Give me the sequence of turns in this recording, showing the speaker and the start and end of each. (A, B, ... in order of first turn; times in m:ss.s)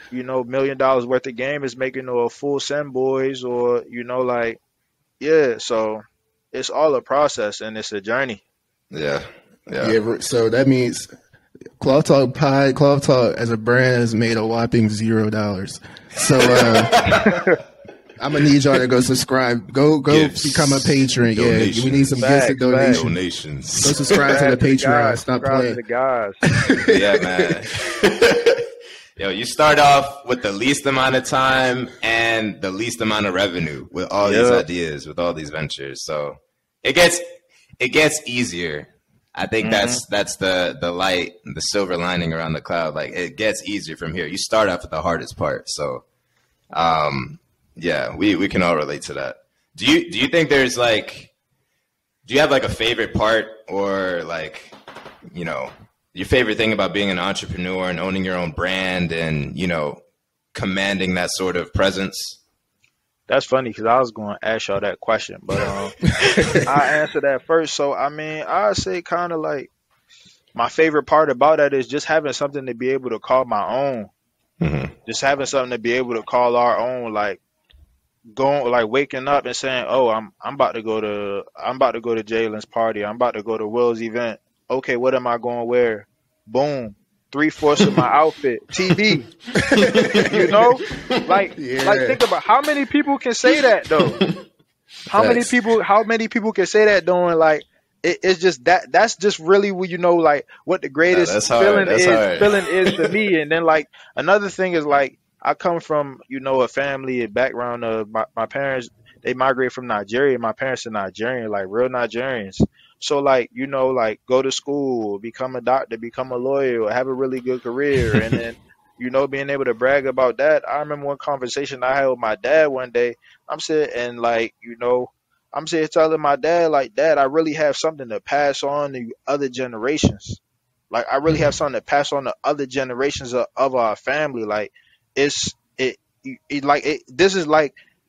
0:00.1-0:04.6 A
0:05.2-0:08.4 A
0:08.9-0:10.0 B
0:09.8-0:11.1 C
0:11.8-0:17.1 C
0:16.4-0:17.4 B
0:17.1-0:17.6 A
0:18.2-0:23.1 C
0:20.1-0:22.2 B
0:22.2-0:23.0 A
0:22.9-0:24.2 B
0:23.8-0:25.8 C
0:24.2-0:26.4 A
0:26.4-0:27.5 C
0:26.8-0:28.6 B
0:29.2-0:37.2 B
0:34.2-0:34.6 A
0:37.8-0:46.0 B
0:39.6-0:40.0 A
0:46.7-0:51.3 B
0:52.2-0:54.7 B
0:55.3-1:00.0 B
1:00.5-1:02.4 B
1:03.3-1:06.0 A
1:06.2-1:06.6 C
1:06.6-1:09.7 A
1:10.6-1:14.1 A
1:14.6-1:14.9 B
1:15.0-1:17.4 A
1:18.4-1:29.3 A
1:29.5-1:30.4 C
1:29.7-1:30.6 B
1:30.2-1:34.2 A
1:31.6-1:32.2 C
1:35.1-2:10.4 A
1:35.1-1:35.5 C
1:41.1-1:43.1 B
1:58.1-1:58.4 B
2:10.9-2:17.8 A